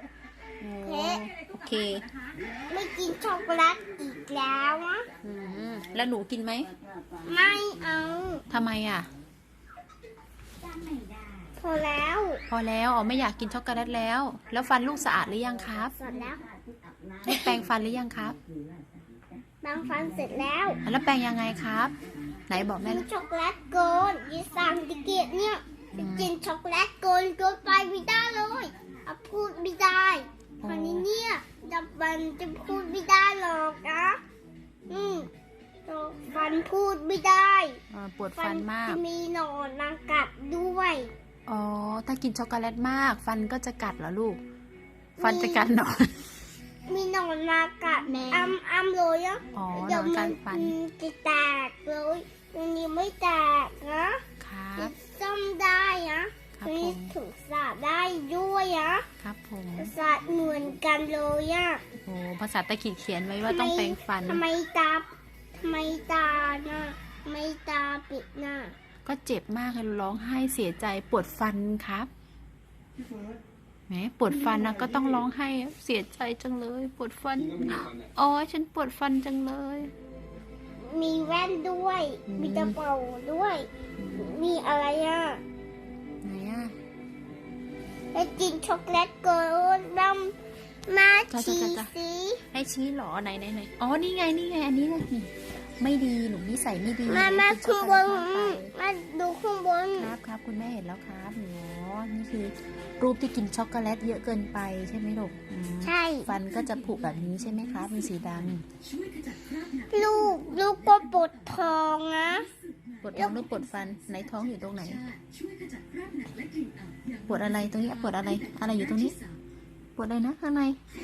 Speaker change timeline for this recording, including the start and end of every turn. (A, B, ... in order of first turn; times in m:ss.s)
0:00.6-0:02.0 A
0:00.8-0:01.2 B
0:02.7-0:05.0 B
0:05.2-0:06.7 A
0:07.2-0:08.4 B
0:08.5-0:09.1 A
0:11.6-0:12.4 B
0:12.5-0:15.9 A
0:16.0-0:16.4 B
0:17.2-0:18.4 A
0:17.3-0:17.6 B
0:19.6-0:20.8 B
0:20.8-0:21.9 A
0:22.5-0:23.0 A
0:22.6-0:34.2 B
0:25.9-0:26.3 A
0:30.6-0:31.0 A
0:34.9-0:35.3 A
0:34.9-0:35.3 B
0:35.8-0:37.8 B
0:37.9-0:39.0 A
0:38.4-0:41.1 B
0:41.5-0:44.4 A
0:45.2-0:45.7 B
0:45.2-0:46.3 A
0:46.9-0:54.2 B
0:48.1-0:48.6 A
0:49.5-0:50.8 A
0:54.4-0:54.9 A
0:54.8-0:59.0 B
0:56.6-0:57.1 A
0:59.2-0:59.9 A
0:59.8-1:01.8 B
1:02.0-1:04.4 A
1:03.4-1:08.7 B
1:09.0-1:12.1 A
1:13.9-1:19.9 A
1:20.8-1:25.4 B
1:22.3-1:22.8 A
1:24.0-1:24.3 A
1:26.2-1:26.7 A
1:28.1-1:30.4 B
1:30.9-1:32.4 B
1:31.3-1:31.9 A
1:32.5-1:38.7 A
1:37.0-1:40.1 B
1:40.0-1:48.6 A
1:45.8-1:46.3 B
1:49.9-1:52.4 B
1:53.0-1:55.0 A
1:53.1-1:53.4 B
1:57.2-1:59.2 A
2:00.0-2:00.8 A